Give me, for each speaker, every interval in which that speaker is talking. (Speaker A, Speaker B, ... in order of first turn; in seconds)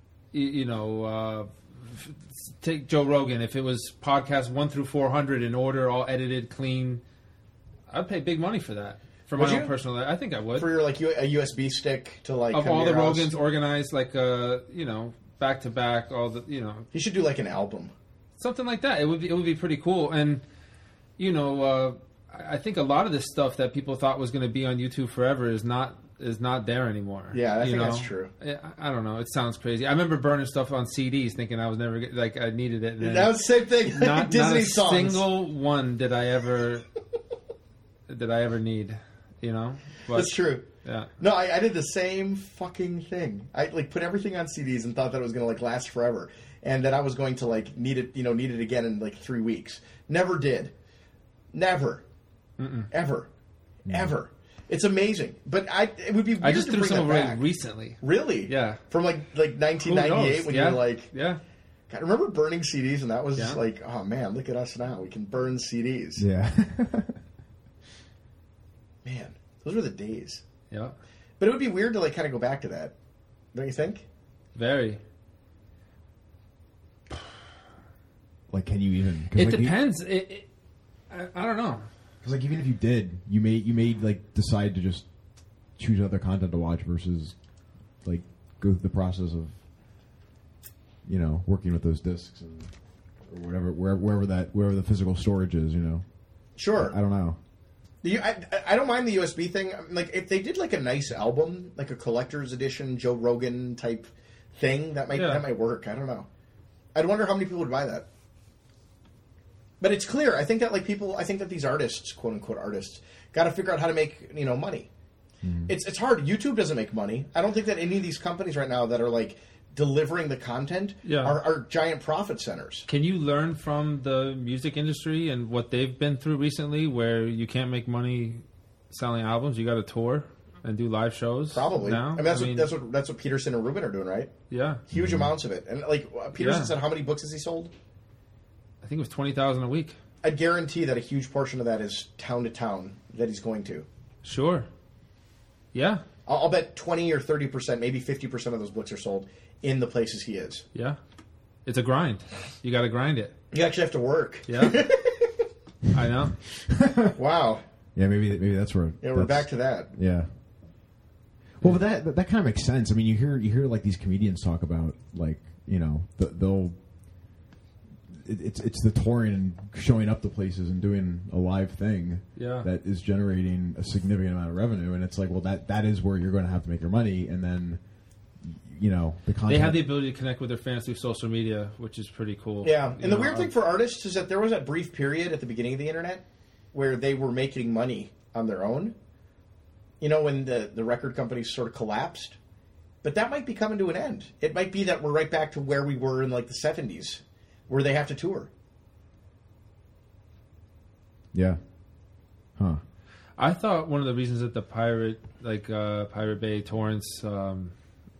Speaker A: 0.3-7.0, 7.9-10.7, 12.5-16.9, 18.4-20.4, 21.2-36.9, 38.1-41.1, 52.6-52.9, 56.4-58.8, 59.8-61.4, 74.5-75.0, 79.3-80.5, 81.1-81.9, 105.2-105.4, 121.0-121.4, 122.9-132.7, 134.5-134.8, 136.4-136.7, 138.8-140.0, 144.2-144.7, 145.7-146.0, 151.7-153.3, 154.5-154.9, 155.9-156.4, 172.4-172.7, 179.5-183.5, 203.4-207.7
Speaker B: 9.4-9.7, 10.6-13.3, 16.9-17.9, 27.3-28.3, 33.0-35.2, 40.1-40.6, 41.2-50.7, 51.5-52.0, 52.9-53.3, 53.9-57.4, 58.0-61.1, 61.9-66.2, 69.0-70.4, 71.4-72.9, 73.5-74.0, 96.6-97.0, 98.0-106.3, 107.0-108.0, 109.8-114.9, 115.7-122.9, 131.5-134.3, 134.9-137.7, 140.2-143.9, 146.3-150.6, 153.5-155.4, 157.1-157.6, 159.0-159.9, 182.6-188.9, 190.0-192.4, 193.0-198.5
Speaker C: 53.9-54.1, 66.2-67.2, 78.5-79.8, 82.2-85.1, 85.8-87.3, 88.0-89.6, 91.1-92.7, 93.3-96.0, 96.8-97.4, 115.4-115.7, 134.9-135.3, 156.7-157.1, 157.9-160.3, 161.6-166.8, 168.1-177.8, 178.4-179.8, 201.3-201.6